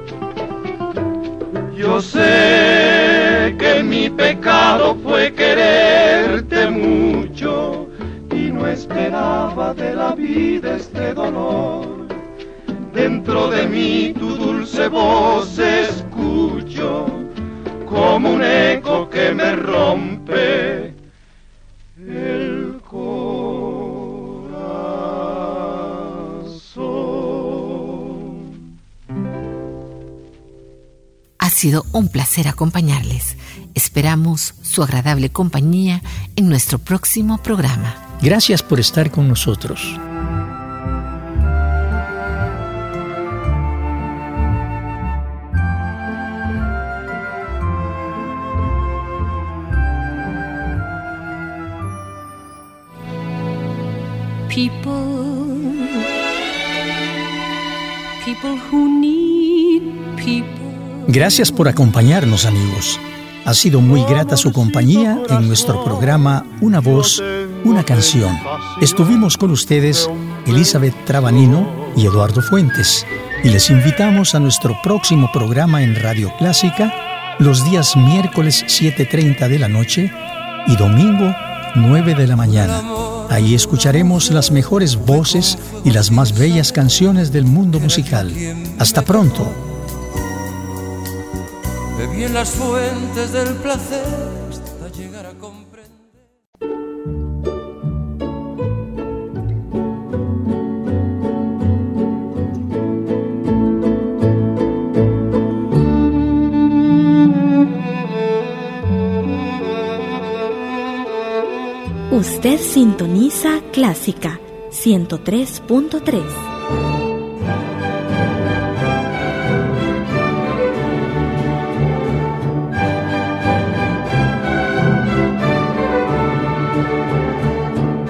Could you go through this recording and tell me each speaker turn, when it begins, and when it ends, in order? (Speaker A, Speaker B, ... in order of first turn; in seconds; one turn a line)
Speaker A: 1.7-12.1
Speaker A: 12.9-17.3
Speaker A: 17.8-20.9
Speaker A: 22.5-23.3
Speaker B: 31.4-38.0
Speaker C: 38.2-40.0
Speaker D: 54.5-56.0
Speaker D: 58.2-60.7
Speaker C: 61.0-80.1
Speaker C: 80.6-89.6
Speaker D: 92.1-94.6
Speaker E: 112.1-116.5